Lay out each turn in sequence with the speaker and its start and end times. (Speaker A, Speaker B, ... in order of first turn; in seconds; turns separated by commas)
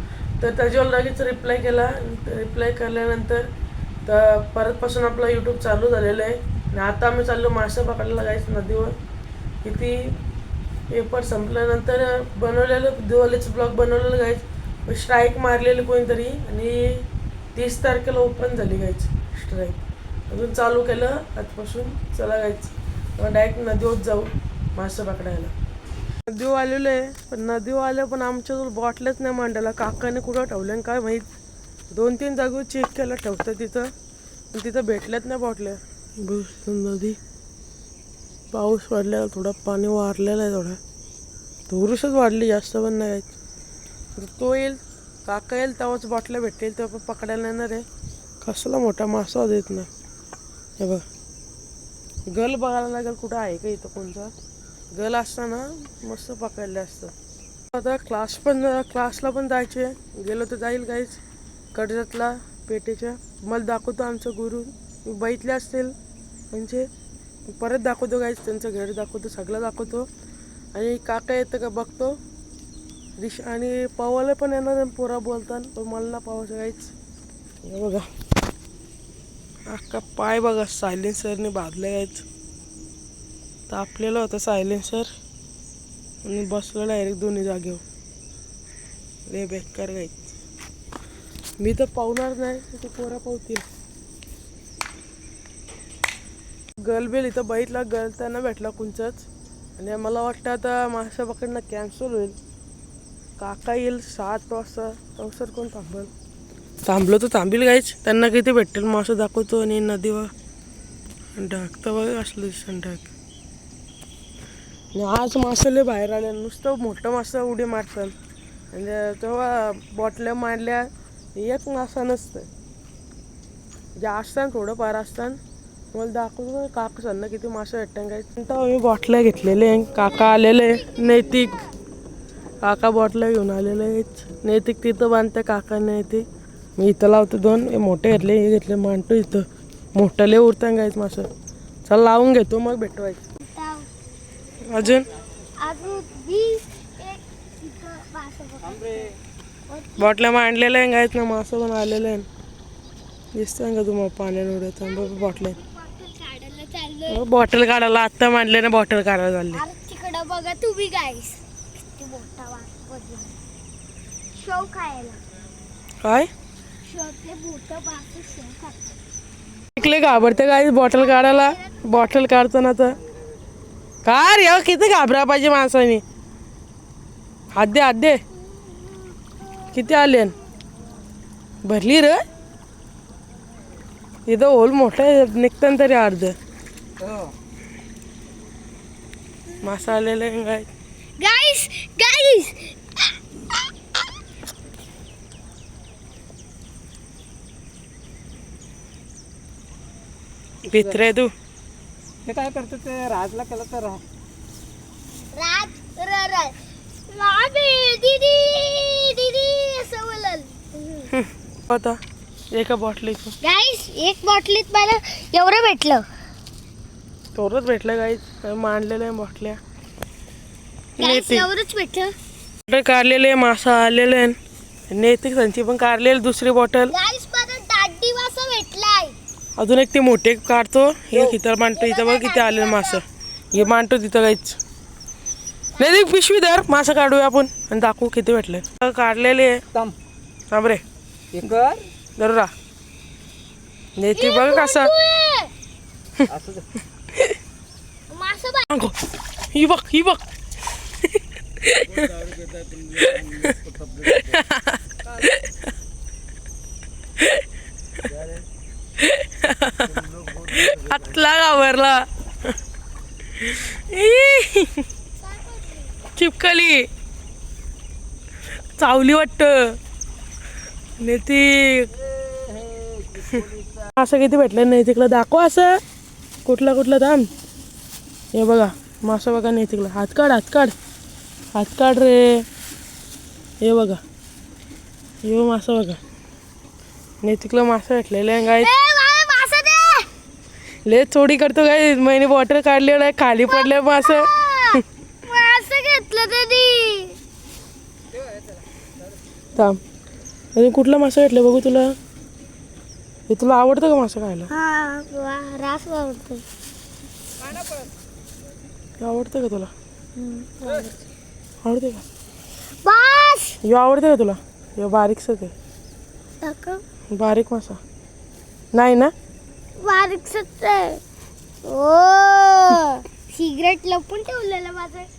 Speaker A: 0.4-3.5, Speaker A: 4.0-8.9, Speaker A: 9.6-10.2, Speaker A: 10.9-25.5, Speaker A: 26.3-31.3, Speaker A: 31.9-33.9, Speaker A: 34.5-37.2, Speaker A: 38.5-40.8, Speaker A: 41.7-43.3, Speaker A: 44.2-47.8, Speaker A: 48.4-49.9, Speaker A: 50.8-51.0, Speaker A: 52.3-54.3, Speaker A: 54.9-57.1, Speaker A: 57.7-61.2, Speaker A: 61.7-65.9, Speaker A: 66.5-66.9, Speaker A: 67.6-70.1, Speaker A: 70.7-72.2, Speaker A: 73.2-76.9, Speaker A: 77.6-78.0, Speaker A: 79.7-82.2, Speaker A: 83.7-85.1, Speaker A: 86.2-87.8, Speaker A: 89.3-90.3, Speaker A: 91.6-93.6, Speaker A: 96.8-99.2, Speaker A: 99.8-102.3, Speaker A: 103.4-106.1, Speaker A: 106.8-110.3, Speaker A: 111.3-113.1, Speaker A: 114.9-118.1, Speaker A: 118.7-122.5, Speaker A: 124.0-125.4, Speaker A: 125.9-131.6, Speaker A: 132.6-136.2, Speaker A: 136.8-141.3, Speaker A: 141.8-143.2, Speaker B: 143.4-143.9, Speaker A: 144.6-145.1, Speaker B: 144.8-145.0, Speaker B: 145.6-149.2, Speaker B: 149.7-150.2, Speaker A: 150.0-152.2, Speaker A: 153.3-155.6, Speaker B: 154.8-157.2, Speaker A: 157.1-159.6, Speaker B: 159.5-163.4, Speaker B: 164.3-165.2, Speaker A: 166.0-166.3, Speaker B: 166.8-168.8, Speaker A: 169.8-173.0, Speaker B: 169.8-170.1, Speaker B: 170.9-172.1, Speaker A: 174.0-176.0, Speaker A: 177.5-178.2, Speaker B: 178.6-179.7, Speaker A: 179.7-180.3, Speaker A: 181.6-182.2, Speaker A: 184.3-186.3, Speaker A: 189.6-190.7, Speaker B: 191.2-193.6, Speaker A: 200.7-201.3, Speaker C: 202.2-204.0, Speaker B: 205.3-206.6, Speaker B: 207.1-211.1, Speaker A: 211.1-212.0, Speaker A: 212.5-213.3, Speaker B: 213.4-216.0, Speaker A: 217.3-219.6, Speaker A: 221.0-221.5, Speaker B: 221.0-222.1, Speaker A: 222.7-224.3, Speaker A: 224.9-226.9, Speaker B: 226.9-229.2, Speaker A: 229.6-234.6, Speaker B: 231.7-233.0, Speaker A: 235.8-239.6, Speaker A: 240.5-240.8, Speaker C: 241.3-241.8, Speaker A: 241.4-242.5, Speaker A: 244.0-244.9, Speaker B: 244.1-245.5, Speaker C: 246.3-246.6, Speaker B: 248.1-248.7, Speaker A: 249.5-250.2, Speaker A: 251.6-252.2, Speaker C: 252.4-253.1, Speaker A: 252.9-255.7, Speaker A: 259.0-262.1, Speaker A: 263.4-264.8, Speaker B: 265.2-265.9, Speaker A: 266.1-266.9, Speaker A: 268.8-269.8, Speaker A: 271.0-271.9, Speaker C: 272.5-273.0, Speaker A: 273.2-275.8, Speaker A: 276.4-277.3, Speaker A: 278.3-280.7, Speaker A: 281.5-282.4, Speaker A: 283.6-284.0, Speaker A: 285.2-286.0, Speaker A: 287.2-288.7, Speaker B: 288.4-290.1, Speaker A: 290.9-294.7, Speaker B: 293.4-297.2, Speaker A: 300.5-301.9, Speaker A: 303.3-304.5, Speaker B: 304.5-306.4, Speaker A: 309.0-309.7, Speaker B: 310.2-310.9, Speaker A: 311.6-312.0, Speaker B: 312.8-313.6, Speaker A: 313.6-315.5, Speaker B: 316.4-316.8, Speaker A: 317.1-317.8, Speaker A: 318.7-319.1, Speaker B: 319.8-321.0, Speaker B: 321.6-325.1